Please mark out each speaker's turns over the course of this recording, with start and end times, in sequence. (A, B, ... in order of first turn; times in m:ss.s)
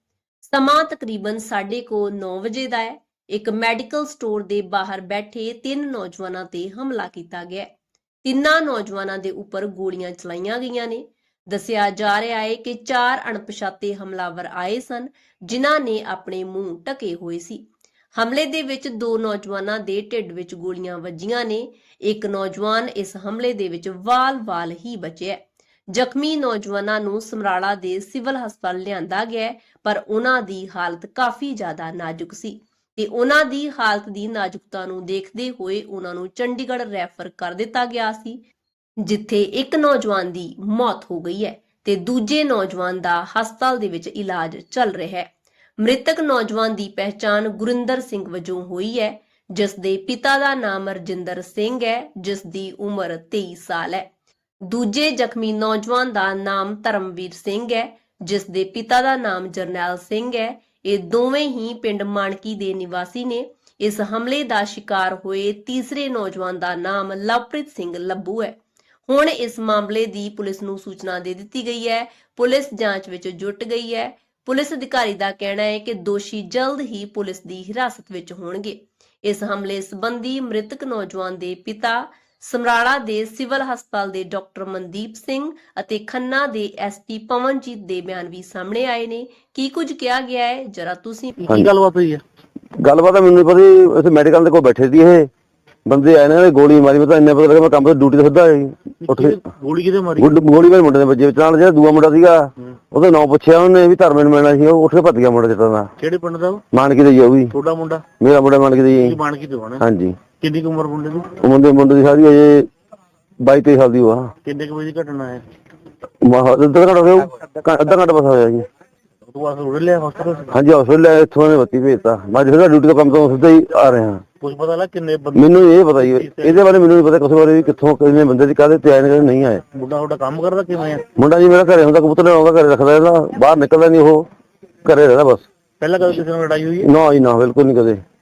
0:00.4-0:07.7 A
0:08.2-0:38.4 A
0:39.0-0:54.1 A
0:54.6-1:31.4 A
1:31.4-1:32.2 B
1:32.8-1:35.3 C
1:35.8-1:39.4 C
1:39.0-1:40.4 B
1:40.2-1:45.9 C
1:46.0-1:46.6 B
1:46.7-1:47.5 C
1:47.5-1:48.0 B
1:48.2-1:49.2 C
1:48.9-1:51.4 B
1:49.8-1:50.2 C
1:51.4-1:52.7 C
1:53.4-1:54.3 C
1:54.4-1:55.4 B
1:56.2-1:58.7 C
1:59.2-2:00.5 B
2:00.5-2:04.2 C
2:04.4-2:06.6 B
2:05.3-2:09.6 C
2:09.7-2:11.0 B
2:11.2-2:14.3 C
2:14.8-2:15.4 C
2:15.8-2:16.9 B
2:16.8-2:18.0 C